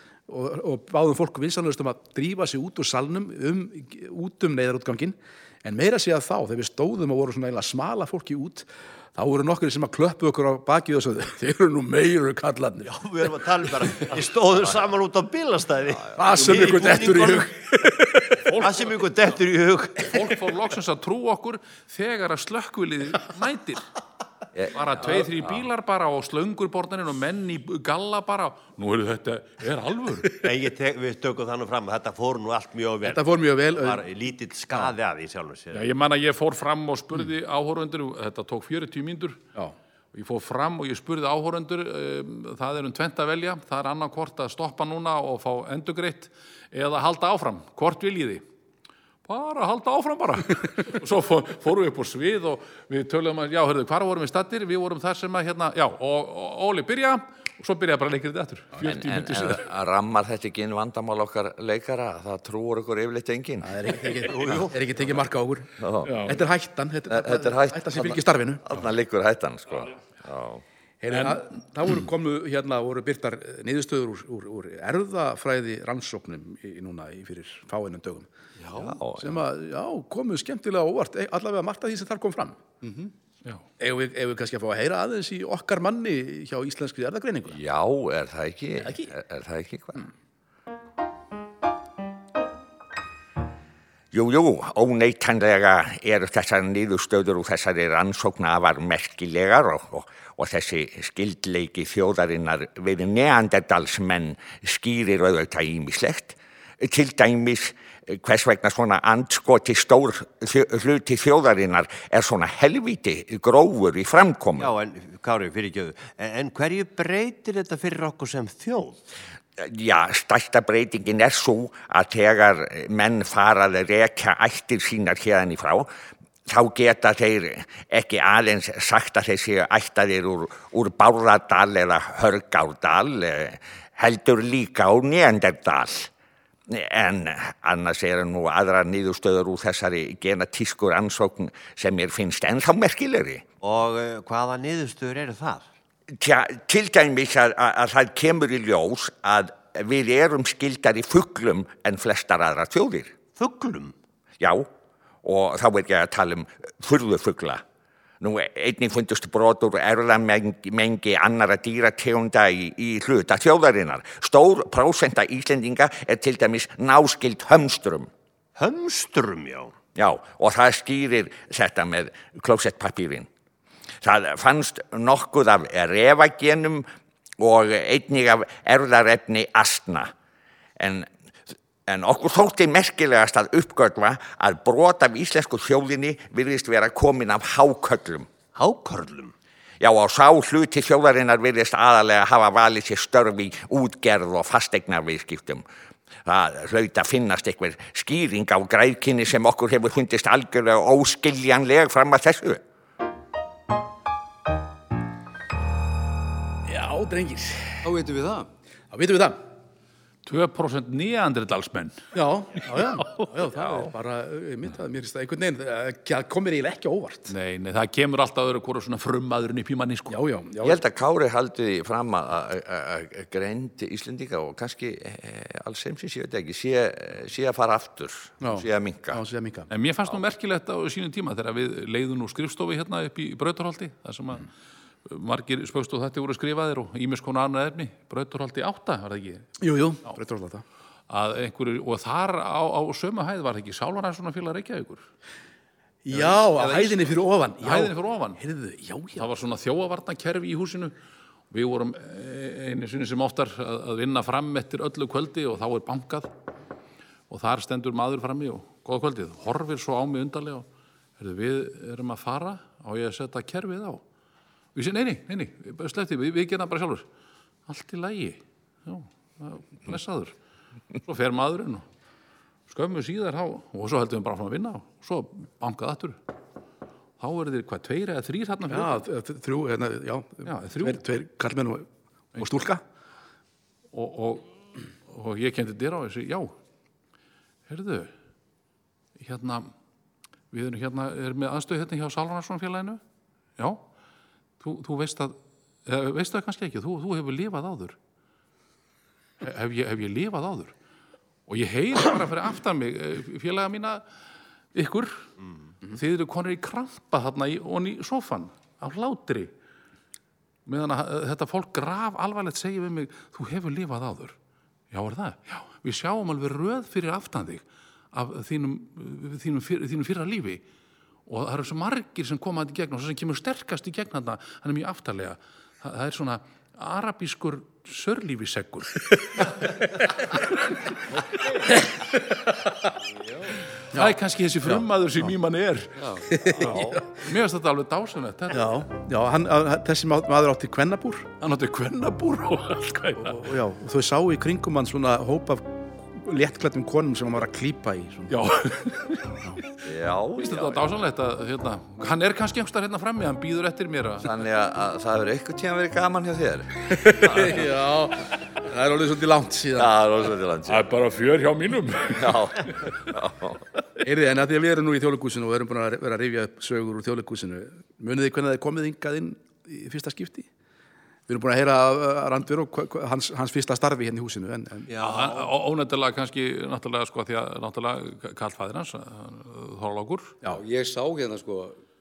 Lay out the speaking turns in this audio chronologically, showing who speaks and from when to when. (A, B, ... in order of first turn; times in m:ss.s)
0:00.3-0:12.9 A
0:12.8-0:17.5 B
0:16.2-0:18.6 A
0:18.4-0:18.8 C
0:18.6-0:20.2 B
0:20.1-0:23.8 C
0:24.5-0:25.6 D
0:24.7-0:30.4 C
0:30.4-0:35.9 B
0:33.0-0:34.0 A
0:35.7-0:39.4 C
0:40.1-0:48.4 C
0:49.2-0:59.7 C
0:58.8-1:04.0 D
1:03.6-1:08.7 A
1:04.2-1:04.8 B
1:05.8-1:06.2 D
1:06.0-1:06.5 C
1:07.1-1:10.6 D
1:11.0-1:18.3 A
1:18.6-1:18.9 E
1:18.8-1:19.4 D
1:19.2-1:22.6 A
1:22.8-1:23.1 E
1:23.8-1:27.6 A
1:27.5-1:30.0 D
1:28.8-1:29.1 A
1:34.1-1:54.7 D
1:54.6-1:59.0 B
1:59.6-2:05.8 D
2:06.5-2:16.0 D
2:16.7-2:23.4 D
2:23.6-2:25.7 B
2:26.2-2:33.1 D
2:33.4-2:33.9 B
2:35.2-2:37.6 D
2:38.2-2:48.1 D
2:48.6-2:49.7 B
2:50.0-2:53.3 D
2:54.0-2:56.8 D
2:57.4-3:00.1 D
3:00.8-3:01.1 D
3:01.9-3:08.3 D
3:08.6-3:09.3 B
3:09.8-3:15.6 D
3:16.3-3:22.6 D
3:26.7-3:27.8 A
3:27.8-3:28.5 E
3:28.9-3:29.4 A
3:30.2-3:32.0 C
3:32.1-3:37.3 A
3:32.8-3:33.3 C
3:37.3-3:40.2 C
3:40.1-3:40.8 A
3:40.6-3:49.2 D
3:48.4-3:49.7 A
3:49.7-3:54.5 C
3:55.1-3:59.5 C
3:59.6-4:00.6 A
4:01.1-4:05.0 C
4:06.0-4:09.2 A
4:06.1-4:07.1 C
4:07.6-4:08.4 C
4:09.2-4:10.9 C
4:11.5-4:16.3 C
4:17.3-4:20.7 C
4:21.2-4:24.0 C
4:24.8-4:27.1 C
4:27.7-4:30.4 C
4:31.0-4:31.8 C
4:32.7-4:36.2 C
4:37.2-4:39.0 C
4:38.7-4:42.8 A
4:40.4-4:41.0 C
4:43.9-4:44.5 C
4:45.1-4:46.5 C
4:47.7-4:48.1 C
4:49.2-4:49.7 C
4:50.5-4:53.0 C
4:53.6-4:53.8 C
4:54.6-4:58.0 C
4:59.4-5:00.7 C
5:01.5-5:04.0 C
5:04.7-5:05.3 C
5:05.9-5:09.5 C
5:10.7-5:14.4 C
5:14.9-5:20.6 C
5:21.3-5:29.6 C
5:33.9-5:38.7 C
5:33.9-5:34.8 A
5:36.0-5:36.3 E
5:36.3-5:37.0 A
5:36.6-5:37.0 D
5:38.5-5:41.4 A
5:41.4-5:43.5 C
5:43.2-5:48.4 A
5:48.3-5:49.4 C
5:49.8-5:50.8 D
5:50.4-5:54.3 C
5:54.2-5:57.7 D
5:56.9-5:59.9 A
5:59.8-6:00.9 D
6:00.7-6:02.9 C
6:02.1-6:03.6 D
6:04.0-6:10.5 A
6:11.3-6:14.9 A
6:15.0-6:20.4 C
6:15.0-6:15.4 B
6:20.5-6:21.8 E